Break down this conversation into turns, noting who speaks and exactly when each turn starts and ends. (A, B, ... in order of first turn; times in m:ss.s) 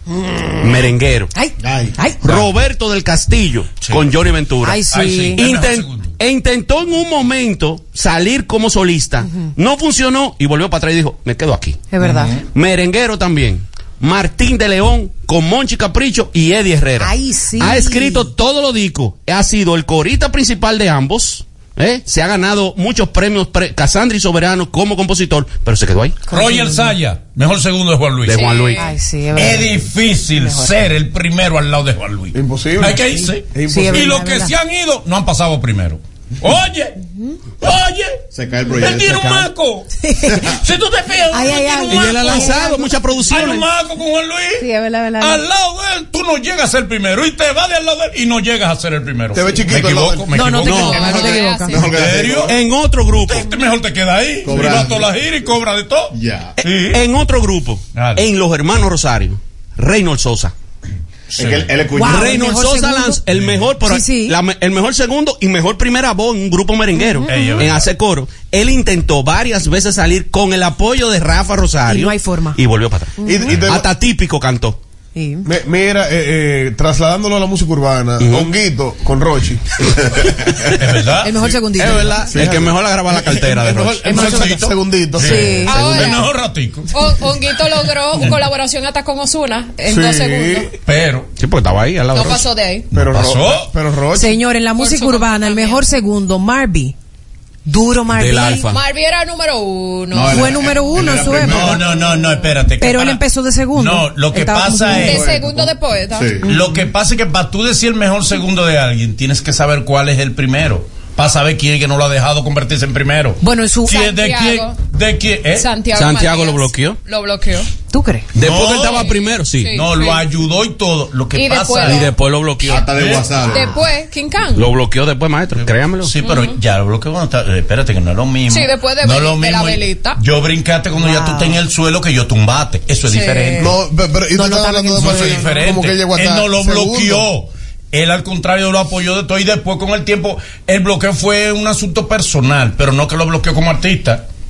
0:00.6-0:01.3 A
0:01.3-0:02.2 B
0:01.6-0:01.9 C
0:02.2-0:11.9 A
0:03.8-0:04.1 D
0:04.6-0:05.5 B
0:04.9-0:06.2 D
0:09.3-0:09.5 B
0:11.9-0:12.3 B
0:12.0-0:12.5 D
0:12.5-0:26.2 A
0:17.0-0:18.3 B
0:26.3-0:27.0 B
0:26.3-0:28.7 D
0:28.2-0:28.8 A
0:28.3-0:28.9 E
0:28.8-0:30.8 B
0:29.4-0:37.0 D
0:32.3-0:34.2 F
0:33.7-0:34.5 B
0:37.6-0:38.2 D
0:38.3-0:39.3 C
0:38.7-0:42.7 D
0:39.0-0:39.5 A
0:40.0-0:40.5 B
0:41.3-0:43.3 B
0:41.9-0:43.7 A
0:43.3-0:44.7 D
0:44.6-0:45.4 B
0:45.2-0:52.5 D
0:49.3-0:50.3 F
0:50.3-0:51.8 B
0:50.6-0:51.1 A
0:50.8-0:51.9 E
0:51.7-0:52.6 C
0:52.4-0:53.5 A
0:53.2-0:57.0 D
0:54.4-0:55.1 C
0:56.1-0:56.6 C
0:56.6-1:00.5 A
0:58.0-0:58.3 D
1:01.3-1:02.4 C
1:01.4-1:01.7 D
1:02.0-1:03.2 B
1:02.0-1:14.8 A
1:03.3-1:03.7 D
1:03.8-1:04.4 B
1:07.0-1:07.6 B
1:07.3-1:07.9 D
1:11.9-1:12.6 B
1:13.2-1:13.5 B
1:13.2-1:13.9 F
1:15.2-1:15.5 B
1:15.4-1:20.2 F
1:18.2-1:18.5 A
1:20.7-1:21.6 D
1:21.2-1:22.2 B
1:21.8-1:24.1 A
1:22.3-1:25.6 F
1:24.0-1:26.9 D
1:24.0-1:24.7 B
1:25.2-1:25.8 B
1:25.7-1:26.3 E
1:25.8-1:26.1 A
1:26.9-1:30.7 E
1:29.9-1:30.7 F
1:30.9-1:31.3 D
1:31.4-1:32.5 A
1:32.1-1:32.9 E
1:32.9-1:34.4 F
1:32.9-1:33.7 D
1:34.1-1:36.9 B
1:34.8-1:35.8 E
1:37.7-1:38.7 B
1:38.1-1:38.8 A
1:38.7-1:40.6 E
1:40.1-1:41.9 C
1:40.2-1:41.8 B
1:41.5-1:43.2 D
1:42.8-1:45.3 B
1:43.7-1:45.3 D
1:44.9-1:46.4 E
1:45.0-1:46.4 C
1:46.4-1:55.7 D
1:46.4-1:46.8 B
1:53.4-1:54.1 B
1:54.0-1:54.8 E
1:55.6-1:57.7 E
1:55.9-1:57.0 A
1:57.9-1:58.3 B
1:58.3-1:59.1 D
1:58.4-1:59.8 A
1:58.9-2:00.2 E
1:59.7-2:02.1 D
2:01.3-2:02.1 E
2:01.9-2:02.9 A
2:02.6-2:03.8 C
2:02.9-2:03.5 D
2:03.4-2:04.7 E
2:04.5-2:06.1 A
2:06.1-2:13.7 D
2:06.2-2:06.6 E
2:08.5-2:10.2 E
2:11.0-2:11.6 B
2:13.1-2:13.7 E
2:13.6-2:17.3 F
2:14.4-2:15.7 B
2:15.0-2:24.3 D